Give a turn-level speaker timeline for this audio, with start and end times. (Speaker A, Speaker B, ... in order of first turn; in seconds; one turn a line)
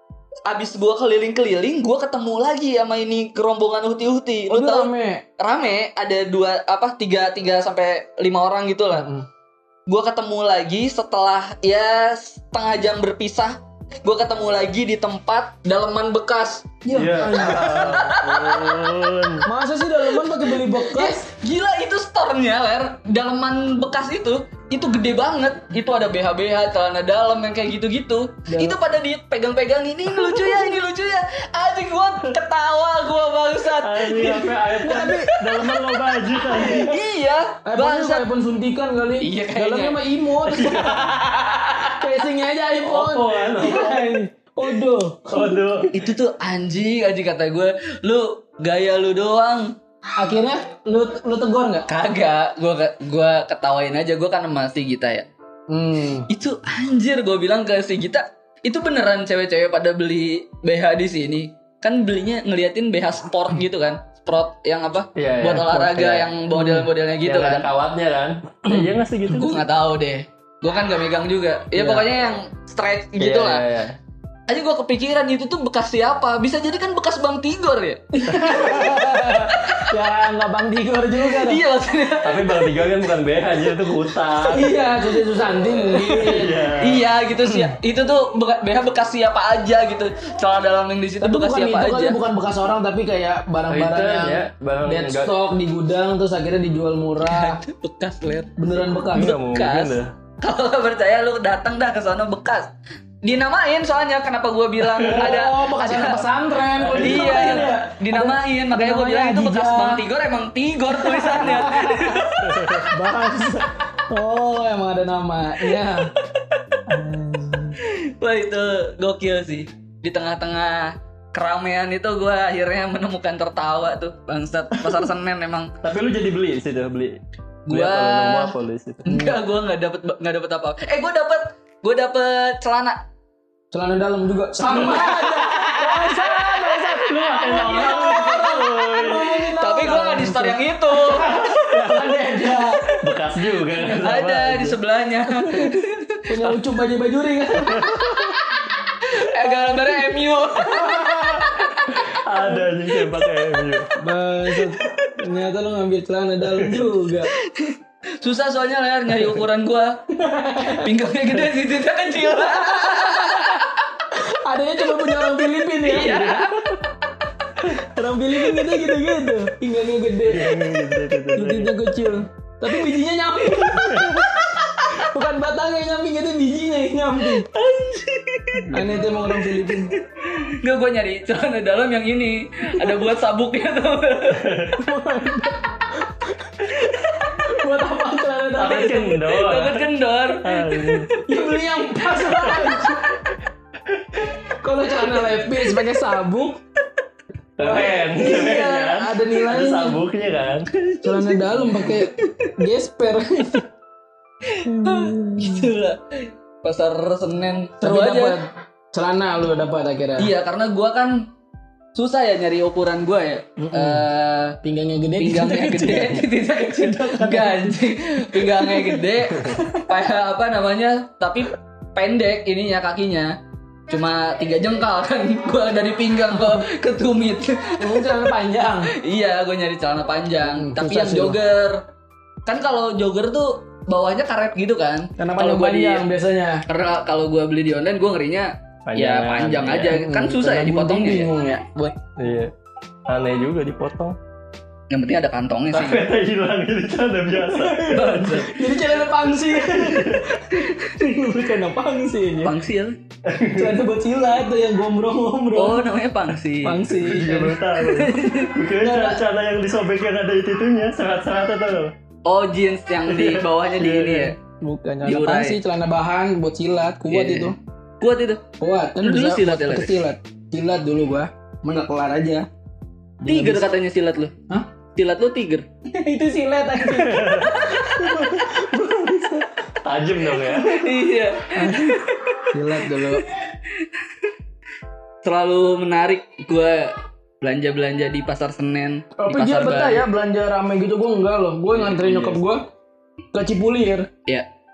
Speaker A: 0.5-9.1
Speaker B: 4.5-5.2
Speaker B: 8.9-9.3
Speaker A: 9.9-16.8
Speaker B: 16.8-18.2
Speaker C: 16.9-19.4
Speaker A: 17.3-18.9
Speaker B: 19.4-21.3
Speaker A: 20.2-35.1
Speaker B: 28.5-28.8
Speaker B: 30.1-30.7
Speaker C: 33.8-37.0
Speaker B: 34.8-35.3
Speaker A: 36.5-38.2
Speaker B: 37.6-41.0
Speaker A: 39.2-40.0
Speaker C: 40.5-41.0
Speaker A: 40.5-42.1
Speaker B: 42.0-45.9
Speaker C: 42.8-44.2
Speaker C: 45.3-45.9
Speaker A: 45.9-49.7
Speaker B: 50.1-51.9
Speaker A: 51.9-55.3
Speaker B: 55.7-56.3
Speaker A: 56.3-67.7
Speaker C: 65.2-66.3
Speaker B: 66.5-66.9
Speaker C: 67.2-69.6
Speaker A: 69.3-73.7
Speaker C: 73.2-74.0
Speaker A: 74.5-79.9
Speaker B: 78.1-81.6
Speaker A: 81.2-82.9
Speaker C: 82.2-84.9
Speaker B: 84.4-86.7
Speaker A: 85.9-92.2
Speaker C: 86.0-87.0
Speaker B: 91.2-97.6
Speaker C: 93.7-95.3
Speaker A: 97.2-98.5
Speaker B: 98.6-99.4
Speaker C: 99.1-100.1
Speaker A: 99.1-106.2
Speaker C: 104.9-105.4
Speaker B: 105.0-110.0
Speaker C: 106.8-107.7
Speaker A: 106.9-112.7
Speaker B: 110.9-116.1
Speaker C: 112.4-112.9
Speaker B: 116.9-117.8
Speaker A: 117.8-125.7
Speaker C: 125.8-129.1
Speaker A: 127.7-128.5
Speaker A: 129.0-133.0
Speaker B: 129.1-129.4
Speaker B: 133.7-142.9
Speaker A: 134.7-136.6
Speaker C: 134.8-135.1
Speaker C: 136.7-139.4
Speaker A: 137.5-141.6
Speaker C: 142.9-144.8
Speaker A: 144.0-146.3
Speaker B: 146.3-148.3
Speaker C: 147.6-148.4
Speaker A: 149.0-151.8
Speaker B: 149.4-150.0
Speaker B: 150.6-151.5
Speaker C: 151.0-153.9
Speaker B: 154.0-157.3
Speaker C: 156.5-156.9
Speaker A: 157.3-160.0
Speaker B: 160.1-160.9
Speaker A: 160.6-163.8
Speaker B: 162.3-166.5
Speaker A: 165.8-166.8
Speaker B: 167.6-170.8
Speaker C: 170.2-171.7
Speaker B: 171.3-177.5
Speaker C: 173.8-174.2
Speaker A: 177.5-178.8
Speaker C: 178.6-179.0
Speaker B: 178.7-179.9
Speaker A: 179.7-184.5
Speaker C: 184.3-184.8
Speaker B: 184.8-189.3
Speaker C: 188.5-189.9
Speaker A: 189.3-191.4
Speaker C: 190.4-191.1
Speaker B: 191.2-193.1
Speaker A: 192.2-192.6
Speaker B: 194.6-196.6
Speaker C: 197.6-200.7
Speaker B: 197.6-200.0
Speaker B: 201.0-203.7
Speaker A: 201.8-202.6
Speaker A: 204.5-208.4
Speaker B: 204.7-205.7
Speaker B: 207.8-210.3
Speaker A: 210.2-211.3
Speaker A: 211.9-214.6
Speaker B: 213.6-214.1
Speaker B: 214.6-219.7
Speaker A: 215.2-223.4
Speaker A: 223.9-228.2
Speaker B: 227.8-228.9
Speaker A: 228.9-231.8
Speaker B: 230.4-231.4
Speaker A: 232.4-236.1
Speaker B: 235.2-236.6
Speaker A: 236.7-241.3
Speaker C: 238.9-240.0
Speaker B: 239.9-242.0
Speaker C: 242.2-242.5
Speaker C: 243.1-244.2
Speaker A: 244.9-246.0
Speaker C: 245.7-248.5
Speaker B: 247.4-252.6
Speaker A: 247.8-248.6
Speaker C: 249.6-250.4
Speaker A: 252.4-253.0
Speaker C: 253.2-253.8
Speaker B: 253.5-255.9
Speaker A: 255.5-256.9
Speaker B: 256.6-257.6
Speaker C: 257.0-261.9
Speaker A: 257.8-258.5
Speaker B: 258.8-259.2
Speaker A: 262.2-264.4
Speaker C: 263.1-264.3
Speaker B: 264.6-267.6
Speaker A: 265.0-265.6
Speaker A: 267.1-268.4
Speaker B: 268.6-272.5
Speaker A: 269.0-270.0
Speaker B: 273.2-273.7
Speaker A: 273.2-274.4
Speaker A: 274.9-275.6
Speaker B: 275.9-279.5
Speaker C: 276.9-278.5
Speaker C: 279.8-280.9
Speaker A: 280.5-284.3
Speaker B: 281.5-283.2
Speaker A: 285.2-290.1
Speaker B: 289.2-292.6
Speaker C: 291.7-292.4
Speaker B: 293.3-294.1